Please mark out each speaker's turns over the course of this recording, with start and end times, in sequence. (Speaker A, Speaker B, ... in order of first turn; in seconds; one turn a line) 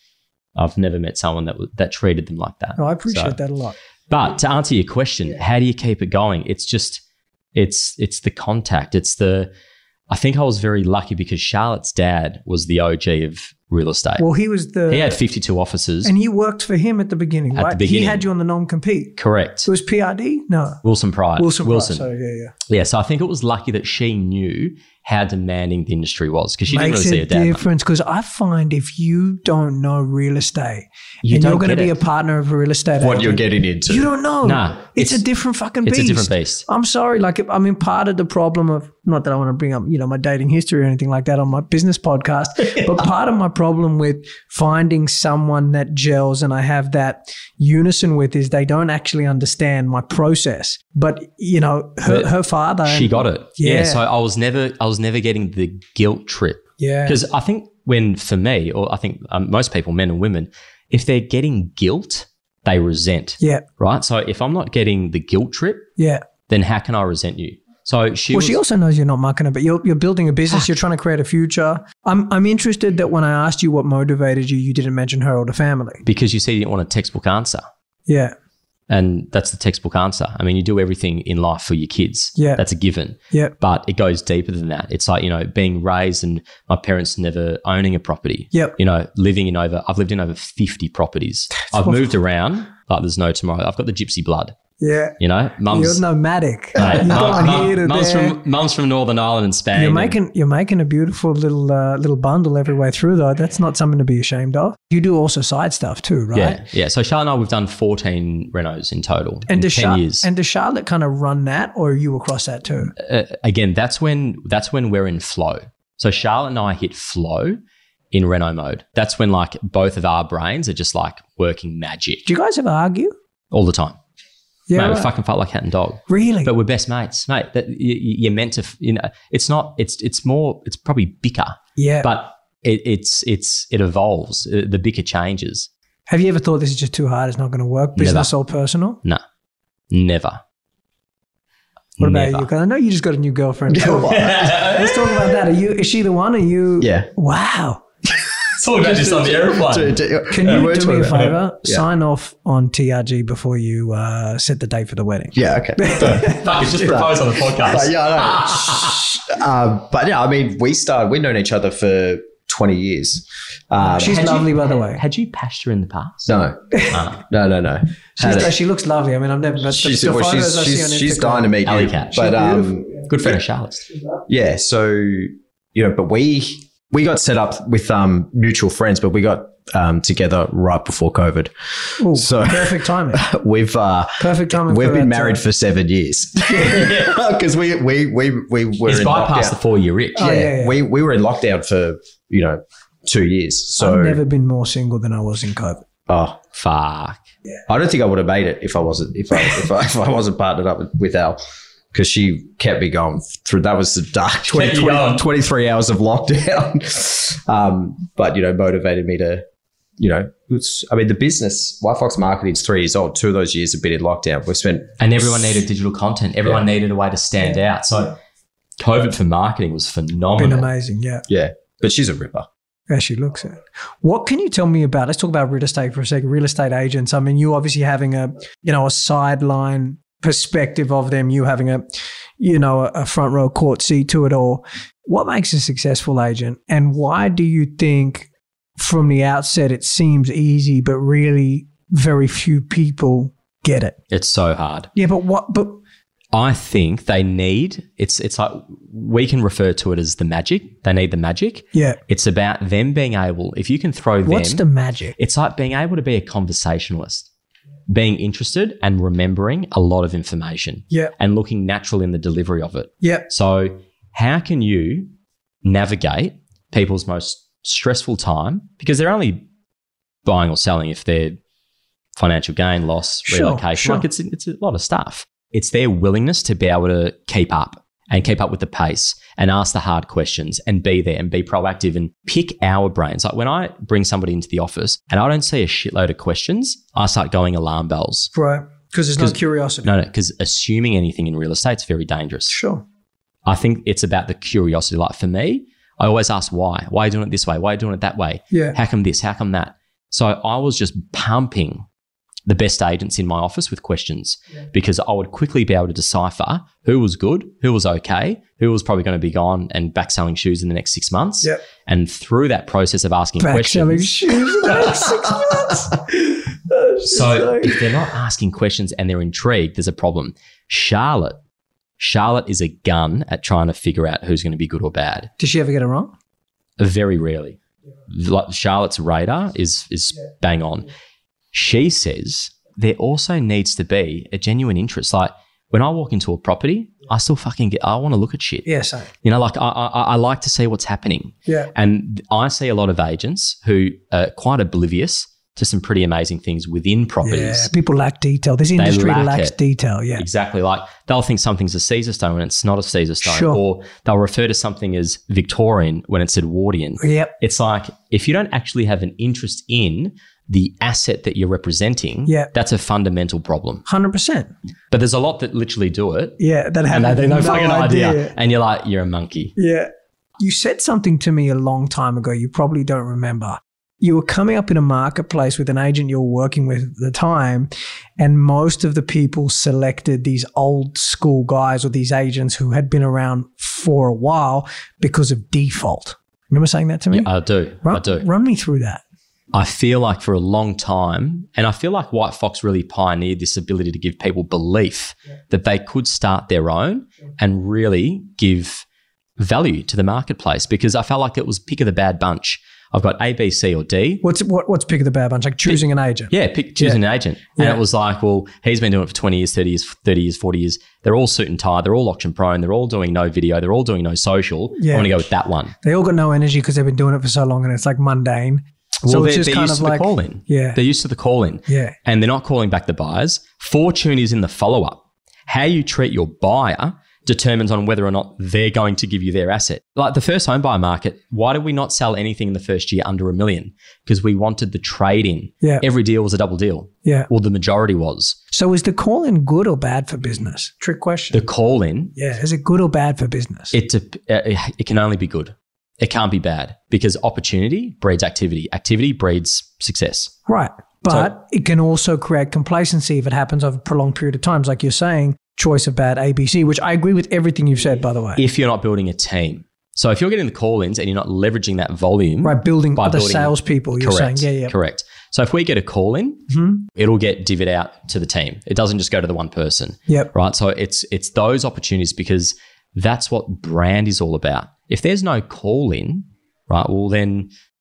Speaker A: 0.6-3.4
Speaker B: 2.8-3.7
Speaker A: 4.1-7.0
Speaker A: 7.5-9.5
Speaker A: 10.1-14.2
Speaker B: 14.2-15.1
Speaker A: 14.9-16.1
Speaker B: 16.0-20.8
Speaker A: 17.5-18.2
Speaker A: 19.2-19.7
Speaker A: 20.8-22.0
Speaker B: 21.4-22.5
Speaker A: 22.7-27.6
Speaker B: 26.7-54.0
Speaker A: 31.2-31.9
Speaker C: 33.0-34.1
Speaker A: 34.4-35.2
Speaker A: 35.8-36.6
Speaker A: 52.0-52.3
Speaker A: 52.8-65.9
Speaker B: 56.8-57.2
Speaker B: 66.0-66.2
Speaker A: 66.5-68.6
Speaker B: 68.3-76.0
Speaker A: 76.0-77.6
Speaker B: 78.1-78.3
Speaker A: 78.9-94.5
Speaker B: 94.8-95.2
Speaker A: 95.2-96.0
Speaker B: 95.7-98.4
Speaker A: 96.8-100.2
Speaker B: 99.7-106.6
Speaker A: 106.3-110.3
Speaker B: 109.5-112.9
Speaker A: 113.0-117.6
Speaker A: 118.1-122.2
Speaker B: 122.2-123.1
Speaker A: 123.5-124.0
Speaker B: 124.7-125.1
Speaker A: 124.7-135.7
Speaker B: 126.1-126.5
Speaker B: 131.8-132.1
Speaker B: 136.1-139.0
Speaker A: 138.0-138.3
Speaker A: 139.9-140.4
Speaker A: 142.0-142.5
Speaker B: 142.0-147.8
Speaker C: 143.7-144.6
Speaker A: 144.1-145.1
Speaker C: 146.8-147.1
Speaker A: 148.6-150.6
Speaker C: 149.6-151.8
Speaker B: 150.3-156.6
Speaker C: 155.3-164.2
Speaker A: 155.9-159.1
Speaker B: 163.8-165.0
Speaker A: 164.0-166.3
Speaker C: 166.3-168.5
Speaker A: 166.9-167.2
Speaker B: 168.2-171.5
Speaker C: 169.7-173.1
Speaker A: 171.6-172.3
Speaker B: 172.1-172.7
Speaker A: 173.1-173.9
Speaker C: 174.3-189.6
Speaker B: 182.0-183.2
Speaker B: 184.2-185.4
Speaker A: 186.6-187.2
Speaker A: 188.8-190.5
Speaker B: 190.2-190.8
Speaker C: 190.2-194.2
Speaker B: 193.8-195.8
Speaker C: 196.1-196.4
Speaker A: 196.5-197.2
Speaker C: 197.7-201.4
Speaker C: 201.9-209.4
Speaker A: 204.5-205.2
Speaker C: 210.0-214.9
Speaker A: 215.0-218.2
Speaker A: 218.8-220.7
Speaker B: 220.4-221.2
Speaker C: 221.3-222.5
Speaker B: 222.9-231.8
Speaker B: 232.4-244.0
Speaker A: 244.1-244.9
Speaker B: 244.9-245.8
Speaker A: 246.3-254.6
Speaker B: 251.7-252.0
Speaker B: 254.2-255.2
Speaker A: 255.2-257.3
Speaker A: 257.9-265.1
Speaker A: 265.6-269.4
Speaker A: 270.2-271.4
Speaker A: 272.1-288.3
Speaker B: 273.3-274.0
Speaker B: 288.3-289.9
Speaker A: 289.2-292.6
Speaker B: 292.5-292.8
Speaker A: 293.4-301.8
Speaker A: 302.4-315.2
Speaker B: 313.4-316.1
Speaker B: 316.7-317.7
Speaker A: 317.1-321.4
Speaker A: 322.0-325.3
Speaker B: 325.4-326.1
Speaker A: 326.8-327.6
Speaker A: 328.1-330.9
Speaker A: 331.5-338.7
Speaker B: 338.6-339.1
Speaker A: 339.2-347.7
Speaker B: 347.2-350.2
Speaker A: 348.8-349.6
Speaker A: 350.2-363.8
Speaker B: 353.2-353.6
Speaker B: 357.0-357.3
Speaker B: 363.9-364.5
Speaker A: 364.9-366.4
Speaker B: 366.4-368.3
Speaker A: 366.9-369.5
Speaker B: 369.6-387.3
Speaker A: 387.1-388.2
Speaker B: 387.8-389.0
Speaker A: 389.5-398.8
Speaker A: 399.4-404.2
Speaker B: 404.2-407.0
Speaker A: 405.6-415.7
Speaker B: 414.8-415.2
Speaker B: 415.8-420.8
Speaker A: 419.0-438.4
Speaker B: 421.7-421.9
Speaker B: 438.5-441.4
Speaker A: 441.3-442.1
Speaker B: 442.1-443.7
Speaker A: 443.7-450.3
Speaker B: 450.5-458.4
Speaker A: 458.4-477.5
Speaker B: 462.4-464.7
Speaker B: 466.5-466.8